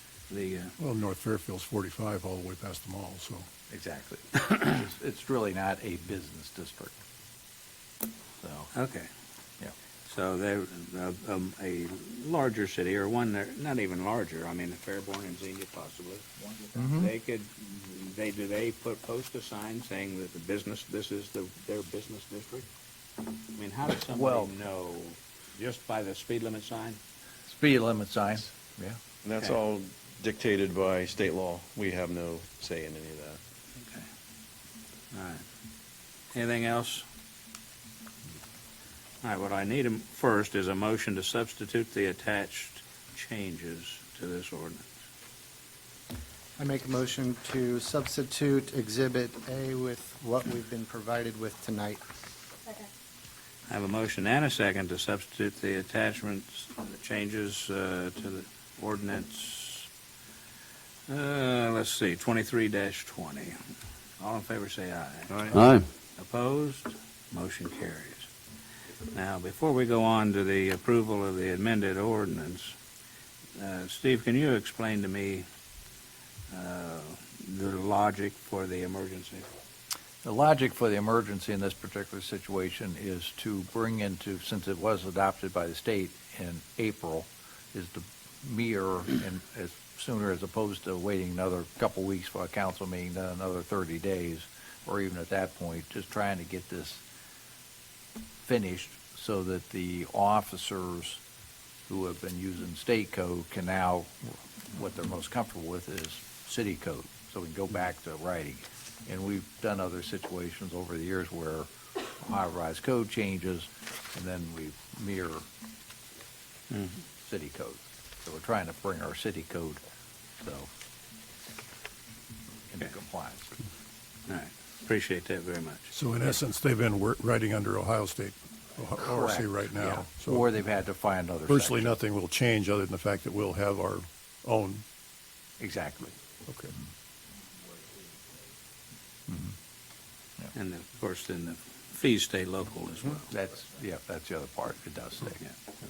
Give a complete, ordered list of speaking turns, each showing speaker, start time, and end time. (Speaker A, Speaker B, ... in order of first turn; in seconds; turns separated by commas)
Speaker A: 0.3-0.7, Speaker B: 0.8-3.5, Speaker C: 3.7-6.9, Speaker C: 8.4-8.7, Speaker A: 8.7-9.1, Speaker A: 10.1-22.7, Speaker C: 16.7-17.1, Speaker A: 23.5-27.0, Speaker C: 24.0-24.5, Speaker C: 27.5-29.0, Speaker D: 29.2-33.4, Speaker A: 33.8-34.0, Speaker A: 35.1-35.4, Speaker A: 36.3-37.1, Speaker A: 39.2-44.9, Speaker E: 46.6-52.0, Speaker A: 53.7-59.9, Speaker A: 61.1-63.6, Speaker A: 64.2-65.6, Speaker A: 66.2-68.3, Speaker A: 69.1-72.8, Speaker A: 73.5-75.5, Speaker A: 76.5-79.5, Speaker C: 80.2-97.0, Speaker C: 98.5-101.2, Speaker C: 101.9-115.4, Speaker A: 116.7-117.0, Speaker C: 117.2-119.8, Speaker C: 120.4-120.7, Speaker C: 122.7-123.5, Speaker A: 124.3-125.9, Speaker B: 125.9-130.5, Speaker C: 129.0-131.9, Speaker B: 131.5-134.8, Speaker C: 135.6-136.1, Speaker B: 136.4-136.7, Speaker C: 139.3-139.5, Speaker A: 140.5-143.3, Speaker C: 143.3-145.4